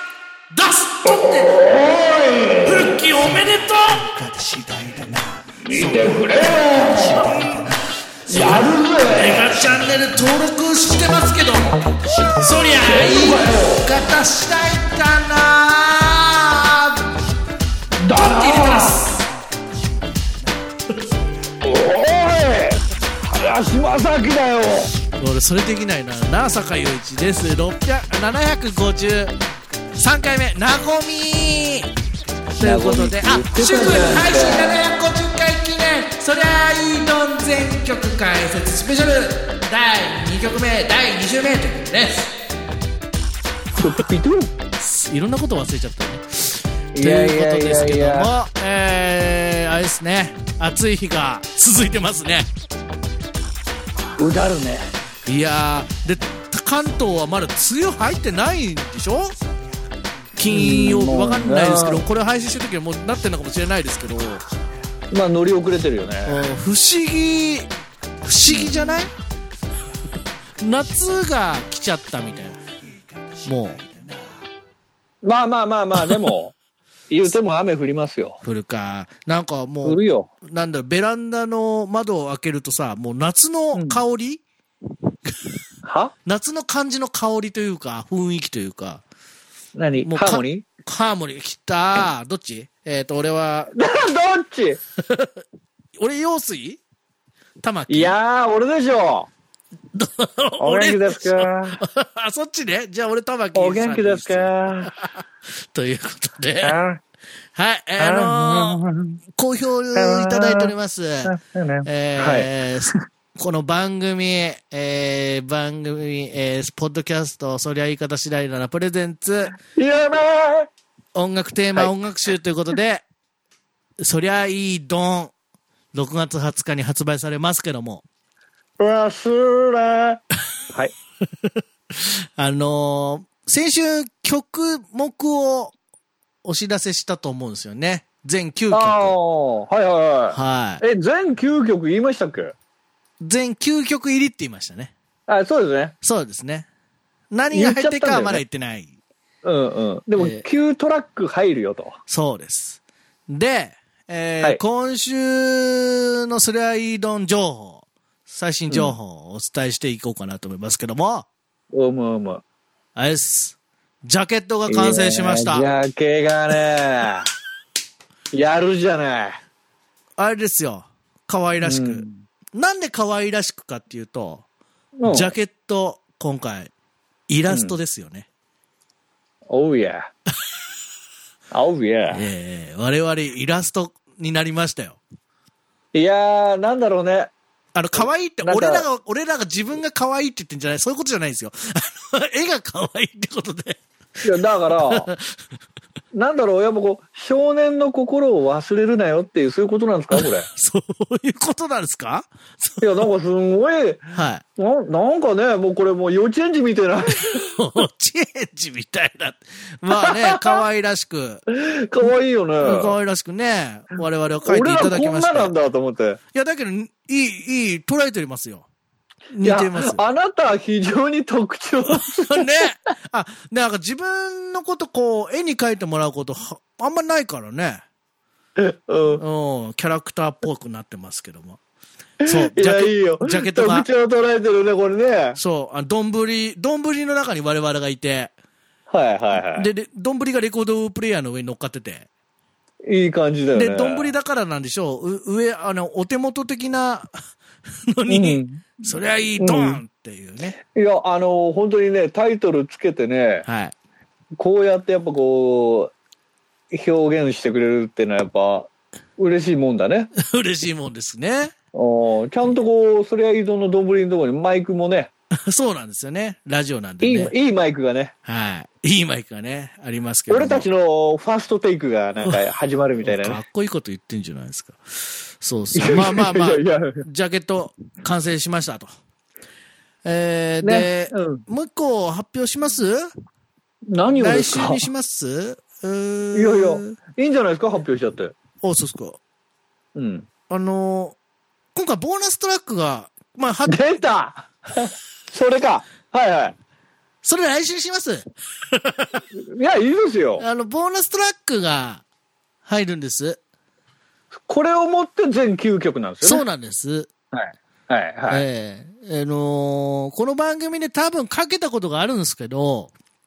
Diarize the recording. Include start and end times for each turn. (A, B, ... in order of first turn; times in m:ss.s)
0:00.5-0:01.5 A
0:01.1-0:02.9 B
0:02.6-0:11.8 A
0:05.6-0:07.2 B
0:08.3-0:09.5 B
0:12.3-0:17.1 A
0:12.8-0:13.8 B
0:18.0-0:19.0 B
0:18.1-0:19.2 A
0:21.6-0:24.9 B
0:25.2-0:29.3 A
0:29.9-0:31.9 A
0:32.5-0:42.3 A
0:32.6-0:34.8 B
0:43.8-0:44.5 B
0:44.8-0:52.5 A
0:47.0-0:48.3 B
0:54.2-0:54.9 B
0:55.2-0:59.3 A
1:00.4-1:04.4 A
1:00.5-1:02.0 B
1:05.1-1:06.4 B
1:06.2-1:07.7 A
1:08.2-1:09.1 A
1:08.5-1:08.8 B
1:10.6-1:12.6 A
1:13.4-1:13.8 A
1:15.2-1:16.5 B
1:17.1-1:18.4 B
1:18.4-1:24.4 A
1:19.8-1:20.3 B
1:23.7-1:24.0 B
1:25.8-1:26.1 B
1:26.2-1:29.0 A
1:29.7-1:30.6 B
1:30.0-1:33.7 A
1:33.8-1:34.8 B
1:35.0-1:35.3 A
1:36.0-1:36.8 A
1:37.6-1:38.1 A
1:37.9-1:39.3 B
1:39.9-1:46.8 A
1:40.6-1:41.8 B
1:43.5-1:44.9 B
1:46.6-1:47.0 B
1:47.5-1:48.8 A
1:48.0-1:49.2 B
1:49.4-1:51.3 A
1:49.9-1:50.7 B
1:51.2-1:53.0 B
1:51.8-1:59.6 A
1:59.8-2:00.7 B
2:01.1-2:03.0 A
2:04.0-2:05.3 A
2:05.9-2:08.0 A
2:08.8-2:10.2 B
2:12.0-2:15.7 A
2:16.4-2:19.2 A
2:18.7-2:22.5 B
2:20.3-2:20.8 A
2:23.2-2:24.9 A
2:25.3-2:25.9 B
2:26.0-2:26.7 A
2:27.3-2:28.9 A
2:27.5-2:28.4 B
2:29.4-2:32.0 B
2:30.2-2:30.4 A
2:32.1-2:41.2 A
2:38.7-2:39.0 B
2:41.7-2:42.4 B
2:42.9-2:45.7 A
2:44.7-2:47.2 B
2:48.3-2:49.4 B
2:50.2-2:54.4 A
2:51.6-2:52.2 B
2:55.0-2:55.3 B
2:55.0-2:56.7 A
2:57.3-2:58.3 A
2:57.5-2:57.8 B
2:59.5-3:00.1 B
3:01.5-3:02.3 B
3:02.1-3:05.0 A
3:05.9-3:07.3 B
3:07.7-3:13.8 A
3:08.0-3:08.9 B
3:14.2-3:15.1 B
3:14.9-3:15.2 A
3:16.1-3:20.5 B
3:20.1-3:23.0 A
3:22.8-3:24.0 B
3:24.1-3:24.4 A
3:24.6-3:27.3 B
3:27.3-3:31.4 A
3:29.9-3:30.6 B
3:31.5-3:32.9 B
3:32.6-3:35.5 A
3:34.4-3:36.2 B
3:36.3-3:38.7 A
3:39.3-3:40.0 A
3:39.4-3:42.6 B
3:41.9-3:47.8 A
3:48.6-3:49.2 B
3:49.2-3:51.6 A
3:52.2-3:55.4 B
3:52.2-3:53.9 A
3:55.3-3:58.3 A
3:58.9-3:59.7 B
3:59.3-4:02.1 A
4:02.8-4:04.1 B
4:03.5-4:07.1 A
4:07.9-4:10.6 A
4:08.1-4:08.8 B
4:09.4-4:09.8 B
4:10.8-4:13.4 B
4:13.4-4:13.7 A
4:14.4-4:15.9 B
4:16.7-4:20.1 B
4:20.2-4:21.5 A
4:21.7-4:25.1 B
4:25.5-4:27.3 A
4:27.0-4:28.1 B
4:28.2-4:30.6 A
4:30.3-4:33.4 B
4:33.0-4:34.8 A
4:35.4-4:38.9 A
4:35.7-4:37.0 B
4:40.0-4:43.1 A
4:40.6-4:41.4 B
4:43.9-4:44.8 B
4:44.1-4:47.0 A
4:46.3-4:48.3 B
4:48.6-4:49.2 A
4:49.9-4:50.3 B
4:50.5-4:51.2 A
4:51.7-4:53.8 A
4:53.7-4:56.5 B
4:57.2-4:59.2 A
4:59.4-5:00.4 B
5:00.4-5:02.0 A
5:02.6-5:03.4 A
5:04.5-5:06.4 B
5:06.2-5:07.1 A
5:07.3-5:08.4 B
5:08.3-5:12.9 A